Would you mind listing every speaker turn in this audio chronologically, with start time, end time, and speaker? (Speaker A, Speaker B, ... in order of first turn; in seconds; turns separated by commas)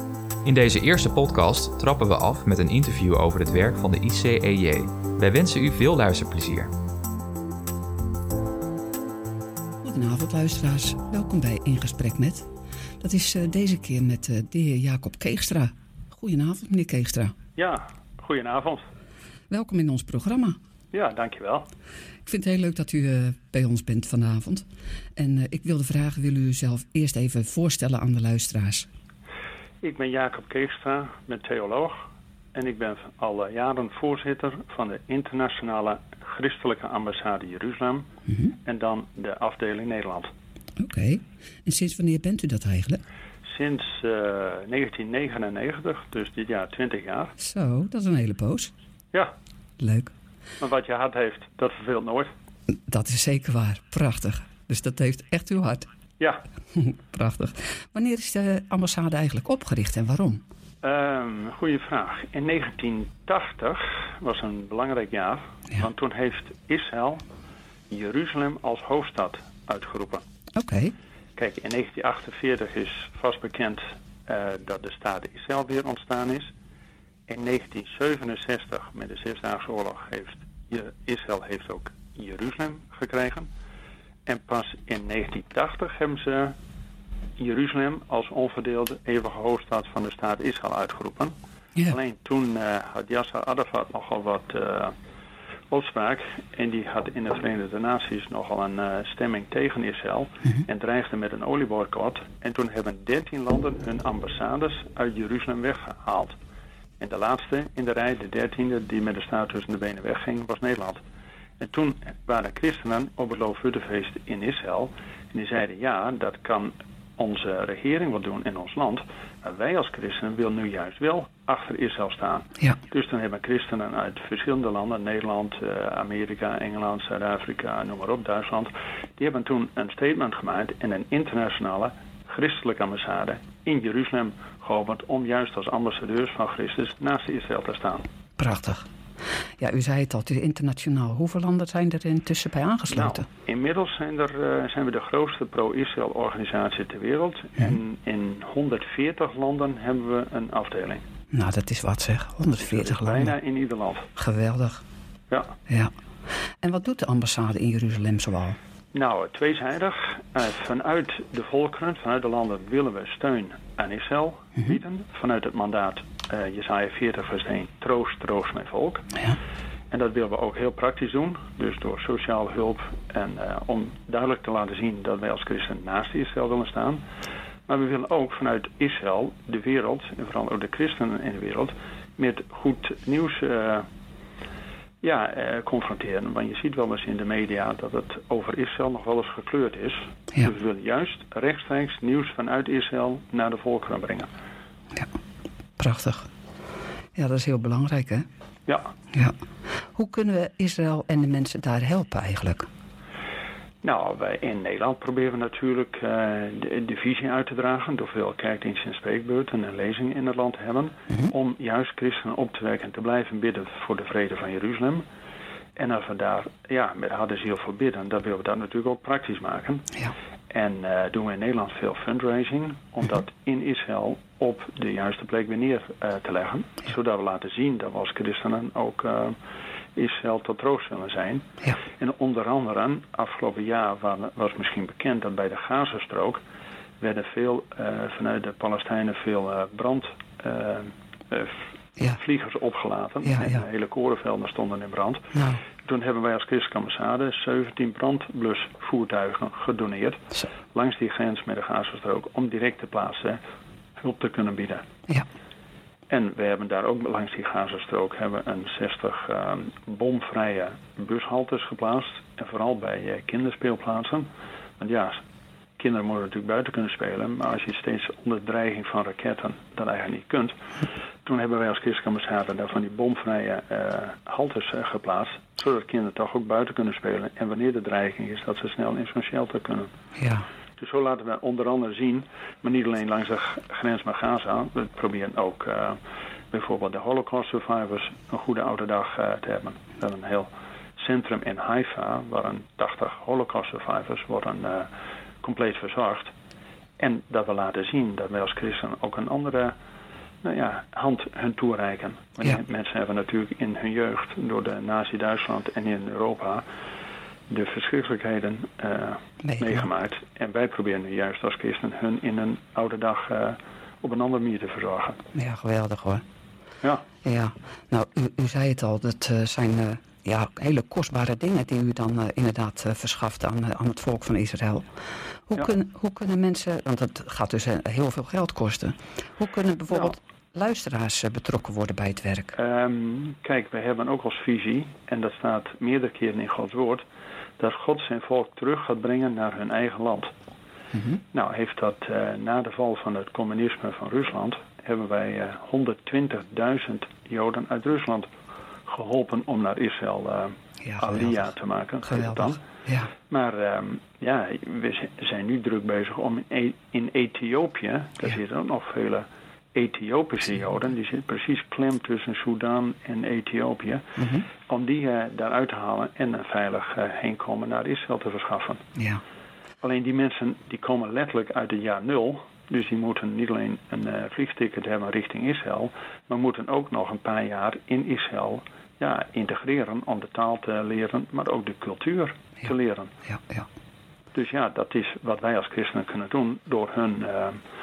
Speaker A: 0.5-6.7, Speaker B: 9.8-12.5, Speaker B: 13.0-17.4, Speaker C: 17.6-18.9, Speaker B: 19.5-20.6, Speaker C: 20.9-21.7, Speaker B: 22.2-24.6, Speaker B: 25.2-28.9, Speaker C: 29.8-38.1, Speaker C: 38.6-40.3, Speaker B: 40.8-43.0, Speaker C: 43.5-47.3, Speaker B: 47.4-48.7, Speaker B: 49.8-50.1, Speaker C: 50.6-52.3, Speaker B: 52.9-55.9, Speaker B: 56.7-60.4, Speaker C: 60.8-67.2, Speaker C: 67.9-70.2, Speaker B: 70.5-70.9, Speaker C: 71.4-76.5, Speaker C: 77.3-83.5, Speaker C: 84.3-86.6, Speaker C: 87.4-91.3, Speaker C: 91.9-95.0, Speaker C: 95.7-106.4, Speaker C: 107.0-111.0, Speaker C: 111.6-138.1, Speaker B: 138.4-138.9, Speaker B: 139.6-143.3, Speaker C: 142.9-151.0, Speaker B: 151.3-153.3, Speaker C: 152.6-154.1, Speaker B: 154.2-154.8, Speaker C: 155.3-155.6, Speaker B: 156.6-158.6, Speaker C: 158.9-169.1, Speaker C: 169.9-177.0, Speaker C: 177.7-183.9, Speaker C: 185.0-194.3, Speaker B: 195.8-196.3, Speaker B: 197.2-198.3, Speaker C: 198.7-198.9, Speaker B: 199.1-202.7, Speaker C: 203.8-215.1, Speaker C: 215.8-229.4, Speaker C: 230.0-236.4, Speaker C: 237.0-253.4, Speaker B: 243.2-243.6, Speaker B: 245.3-245.6, Speaker C: 254.0-254.8, Speaker C: 256.1-265.2, Speaker C: 265.8-270.6, Speaker C: 271.2-279.9, Speaker B: 280.2-280.4, Speaker C: 280.8-286.0, Speaker C: 286.5-294.9, Speaker C: 295.4-296.3, Speaker C: 297.0-299.8, Speaker C: 300.4-306.6, Speaker C: 307.5-315.2, Speaker B: 309.4-309.8, Speaker B: 315.3-316.2, Speaker B: 317.2-332.5, Speaker C: 332.5-337.0, Speaker C: 337.6-340.3, Speaker B: 340.9-341.2, Speaker C: 341.3-348.3, Speaker C: 348.9-352.6, Speaker B: 350.8-351.3, Speaker B: 352.1-353.1, Speaker C: 353.3-368.9, Speaker B: 364.2-364.5, Speaker B: 369.0-369.2, Speaker C: 369.8-383.1, Speaker B: 383.3-383.7, Speaker C: 384.3-387.6